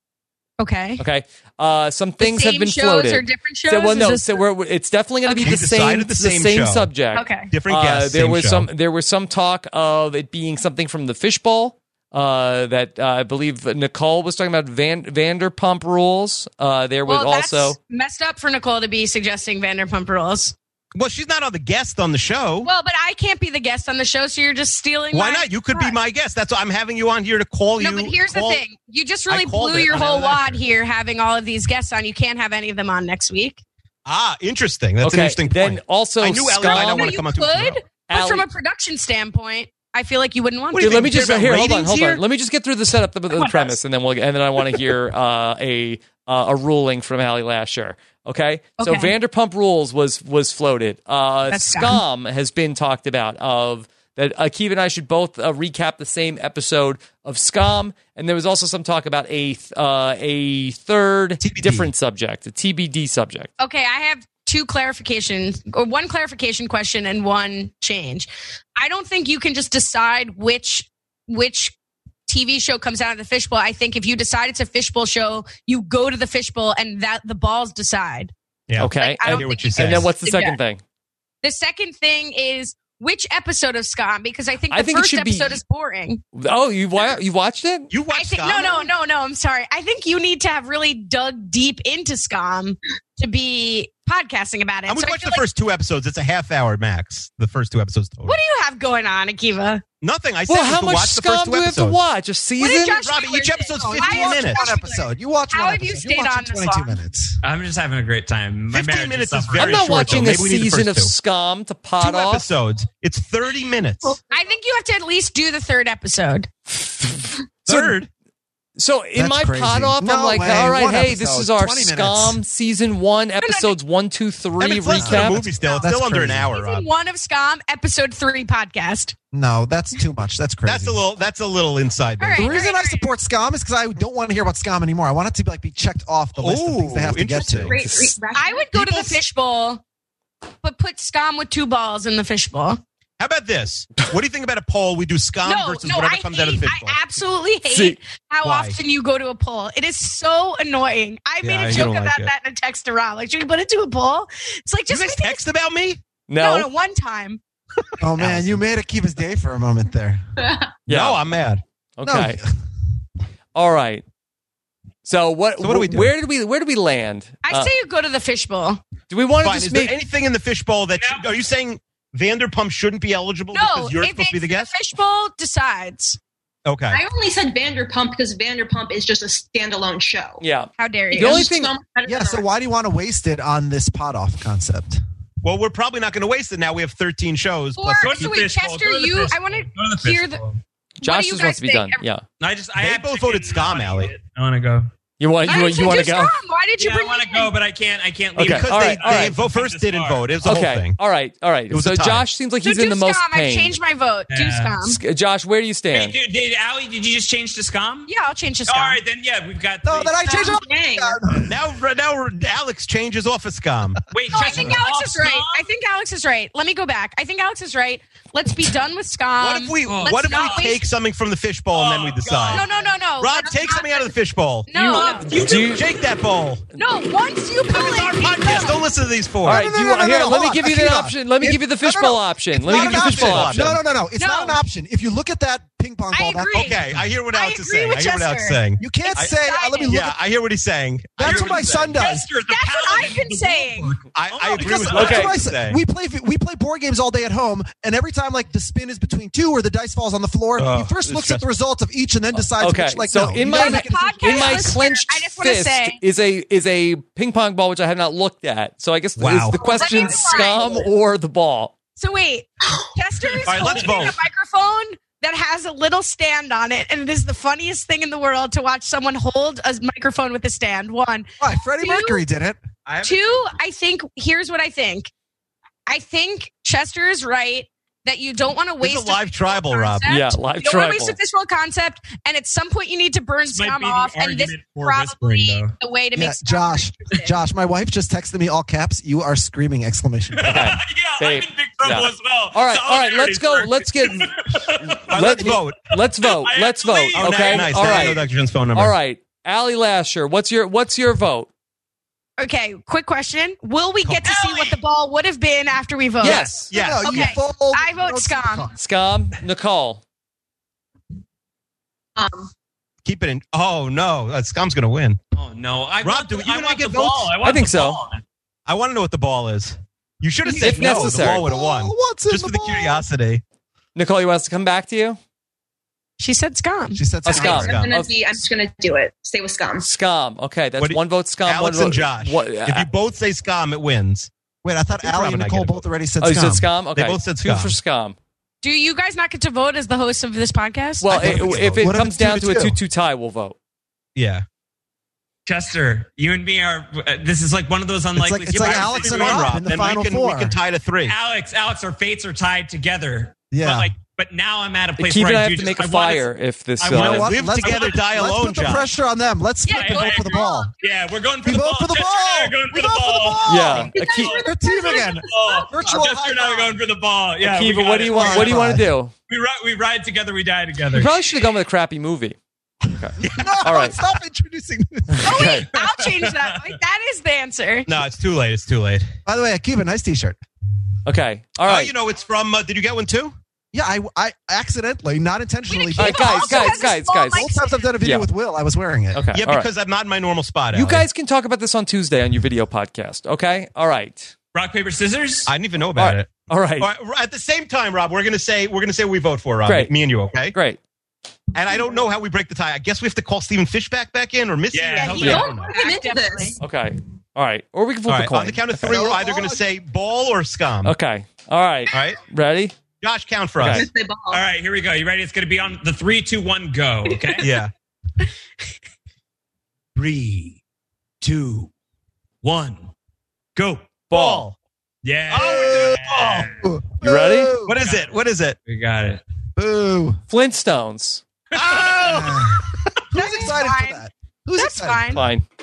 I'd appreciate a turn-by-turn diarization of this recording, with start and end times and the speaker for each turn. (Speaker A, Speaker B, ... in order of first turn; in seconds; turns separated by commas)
Speaker A: 0.6-1.0, Speaker B: 1.0-17.8, Speaker A: 2.2-4.4, Speaker A: 5.3-5.6, Speaker C: 5.4-6.9, Speaker A: 7.1-7.5, Speaker C: 7.5-8.7, Speaker A: 17.1-20.5, Speaker C: 20.9-22.7, Speaker A: 22.6-26.0, Speaker C: 25.1-28.6, Speaker A: 27.8-33.6, Speaker C: 29.3-30.6, Speaker C: 34.0-37.8, Speaker B: 35.0-37.2, Speaker A: 36.5-41.3, Speaker B: 38.1-38.5, Speaker C: 40.7-42.2, Speaker B: 40.8-63.5, Speaker A: 43.4-43.7, Speaker A: 48.8-49.1, Speaker A: 51.5-52.0, Speaker C: 61.4-61.9, Speaker A: 63.6-71.7, Speaker A: 72.3-78.3, Speaker C: 78.7-80.1, Speaker B: 78.8-80.8, Speaker A: 78.8-80.6, Speaker A: 81.4-86.2, Speaker B: 84.7-85.6, Speaker B: 86.3-87.9, Speaker C: 87.9-88.9, Speaker A: 88.1-95.5, Speaker C: 94.9-98.4, Speaker A: 98.2-99.8, Speaker C: 100.0-102.0, Speaker B: 100.5-103.0, Speaker A: 102.6-107.0, Speaker C: 102.8-104.6, Speaker D: 103.7-107.4, Speaker E: 107.4-110.3, Speaker C: 108.7-111.1, Speaker B: 109.6-112.5, Speaker C: 112.0-114.2, Speaker A: 114.2-116.5, Speaker B: 116.7-118.0, Speaker C: 117.6-118.1, Speaker B: 118.8-125.5, Speaker D: 119.1-122.4, Speaker A: 123.4-123.8, Speaker C: 124.6-126.9, Speaker D: 124.9-126.5, Speaker A: 125.5-125.9, Speaker A: 126.5-129.1, Speaker D: 129.3-131.0, Speaker C: 130.7-132.7, Speaker A: 132.2-133.1, Speaker D: 132.3-137.8, Speaker C: 136.4-137.8, Speaker F: 137.4-139.0, Speaker A: 138.3-139.8, Speaker A: 140.6-142.8, Speaker C: 143.2-147.0, Speaker A: 145.4-155.4, Speaker B: 147.7-148.0, Speaker C: 148.4-148.8, Speaker C: 151.4-152.3, Speaker C: 154.9-156.0, Speaker B: 156.3-156.7, Speaker A: 156.3-157.4, Speaker D: 158.0-160.2, Speaker C: 158.2-158.6, Speaker C: 160.8-161.6, Speaker B: 160.9-161.2, Speaker B: 162.0-162.4, Speaker D: 162.0-162.5, Speaker B: 163.5-164.0, Speaker B: 165.0-167.7, Speaker C: 165.6-166.1, Speaker A: 167.4-168.8, Speaker B: 169.1-169.9, Speaker C: 169.4-174.7, Speaker E: 171.0-171.3, Speaker A: 173.5-176.2, Speaker C: 176.6-177.0, Speaker F: 176.9-180.4, Speaker B: 180.4-181.7, Speaker A: 180.8-181.5, Speaker F: 181.1-182.4, Speaker D: 182.0-185.0, Speaker C: 185.4-188.4, Speaker A: 187.8-190.4, Speaker E: 188.0-190.6, Speaker A: 191.0-192.0, Speaker B: 191.0-192.2, Speaker E: 192.4-194.9, Speaker C: 192.8-194.1, Speaker B: 195.2-196.3, Speaker A: 195.4-197.5, Speaker E: 196.8-200.3, Speaker B: 198.3-199.4, Speaker C: 198.4-201.0, Speaker B: 200.4-203.7, Speaker C: 201.7-202.3, Speaker A: 202.6-205.0, Speaker E: 204.3-204.8, Speaker B: 204.8-206.1, Speaker E: 205.9-208.1, Speaker A: 208.1-209.0, Speaker E: 208.7-210.3, Speaker D: 209.8-211.5, Speaker A: 210.2-210.6, Speaker F: 210.4-211.2, Speaker C: 211.4-214.0, Speaker E: 214.1-215.7, Speaker A: 214.3-220.9, Speaker C: 219.4-222.7, Speaker E: 219.8-220.7, Speaker E: 221.7-222.9, Speaker A: 222.5-224.2, Speaker C: 223.2-224.7, Speaker A: 224.7-225.5, Speaker B: 224.7-225.8, Speaker E: 224.9-225.6, Speaker C: 225.5-226.6, Speaker A: 226.7-228.9, Speaker C: 227.7-229.7, Speaker D: 229.4-236.8, Speaker B: 229.4-233.8, Speaker C: 232.7-233.8, Speaker A: 234.1-234.6, Speaker A: 236.1-240.1, Speaker C: 236.5-241.8, Speaker D: 238.8-240.2, Speaker D: 241.2-242.2, Speaker E: 241.2-245.4, Speaker A: 242.0-244.0, Speaker C: 244.1-245.8, Speaker D: 244.6-254.8, Speaker B: 244.9-245.3, Speaker C: 250.6-251.5, Speaker B: 252.3-261.7, Speaker A: 253.4-256.0, Speaker C: 259.1-259.6, Speaker F: 259.5-260.8, Speaker A: 259.6-260.8, Speaker A: 262.0-272.2, Speaker C: 263.4-264.2, Speaker E: 263.5-264.1, Speaker D: 271.4-272.6, Speaker C: 272.9-273.4, Speaker A: 273.0-275.1, Speaker A: 275.9-287.3, Speaker C: 278.8-280.1, Speaker B: 280.1-281.2, Speaker E: 283.5-285.8, Speaker D: 286.1-290.8, Speaker E: 290.3-295.6, Speaker B: 290.5-301.5, Speaker C: 295.1-295.8, Speaker E: 296.2-298.2, Speaker C: 297.1-298.9, Speaker A: 302.4-308.7, Speaker B: 306.2-306.7, Speaker C: 306.3-307.3, Speaker D: 306.7-308.7, Speaker B: 308.8-310.0, Speaker F: 312.2-312.5, Speaker C: 313.0-315.2, Speaker E: 315.3-318.2, Speaker C: 316.0-317.3, Speaker B: 317.4-318.0, Speaker C: 318.7-323.4, Speaker D: 320.4-323.1, Speaker B: 320.5-321.4, Speaker B: 323.9-325.2, Speaker A: 326.2-327.0, Speaker D: 326.9-327.8, Speaker B: 327.2-328.1, Speaker C: 327.3-328.0, Speaker F: 327.3-329.9, Speaker B: 329.8-332.9, Speaker C: 330.8-334.3, Speaker D: 334.6-336.6, Speaker C: 334.9-335.8, Speaker B: 336.2-338.1, Speaker C: 336.9-337.8, Speaker A: 338.6-341.1, Speaker B: 341.0-343.6, Speaker C: 341.1-341.9, Speaker D: 341.1-342.8, Speaker C: 344.1-344.4, Speaker E: 345.4-349.5, Speaker D: 348.1-350.6, Speaker C: 348.5-351.1, Speaker E: 351.1-356.2, Speaker D: 353.5-353.9, Speaker B: 355.0-357.3, Speaker C: 356.8-358.9, Speaker D: 356.9-360.7, Speaker E: 357.6-358.0, Speaker A: 359.6-360.9, Speaker E: 359.7-364.2, Speaker D: 361.4-366.7, Speaker B: 363.4-364.4, Speaker F: 363.7-365.7, Speaker E: 365.2-368.6, Speaker B: 367.4-369.1, Speaker D: 368.1-368.9, Speaker E: 369.3-371.1, Speaker B: 370.9-372.4, Speaker B: 372.9-373.9, Speaker C: 373.2-373.9, Speaker D: 373.2-375.3, Speaker B: 375.1-375.7, Speaker A: 375.2-377.9, Speaker E: 375.7-376.8, Speaker C: 377.9-379.1, Speaker D: 379.2-380.4, Speaker B: 381.1-381.9, Speaker C: 381.6-383.3, Speaker D: 383.7-389.3, Speaker A: 385.7-387.8, Speaker B: 386.0-387.5, Speaker B: 388.0-388.3, Speaker B: 389.1-389.7, Speaker C: 389.3-391.0, Speaker B: 390.7-394.3, Speaker E: 394.5-395.5, Speaker C: 395.5-400.5, Speaker B: 395.9-396.9, Speaker B: 399.6-399.9, Speaker B: 400.5-400.8, Speaker C: 401.5-405.7, Speaker E: 404.7-405.7, Speaker A: 404.9-406.6, Speaker F: 405.4-406.6, Speaker B: 406.6-408.9, Speaker C: 408.1-410.9, Speaker D: 408.8-409.6, Speaker B: 410.8-412.8, Speaker C: 411.9-412.2, Speaker C: 413.0-413.9, Speaker B: 413.6-413.9, Speaker F: 413.7-414.4, Speaker E: 414.3-417.4, Speaker C: 417.4-417.7, Speaker E: 419.9-420.6, Speaker E: 421.2-421.7, Speaker E: 422.4-422.9, Speaker E: 423.6-424.1, Speaker C: 424.1-424.5, Speaker B: 424.1-424.5, Speaker E: 425.0-426.7, Speaker C: 425.3-426.5, Speaker D: 426.6-427.8, Speaker B: 427.0-427.5, Speaker C: 427.6-428.6, Speaker E: 427.8-428.1, Speaker E: 428.6-429.2, Speaker D: 429.6-430.2, Speaker B: 430.3-431.2, Speaker E: 431.5-432.4, Speaker C: 431.6-432.4, Speaker D: 432.0-435.3, Speaker A: 433.1-435.2, Speaker B: 435.1-435.4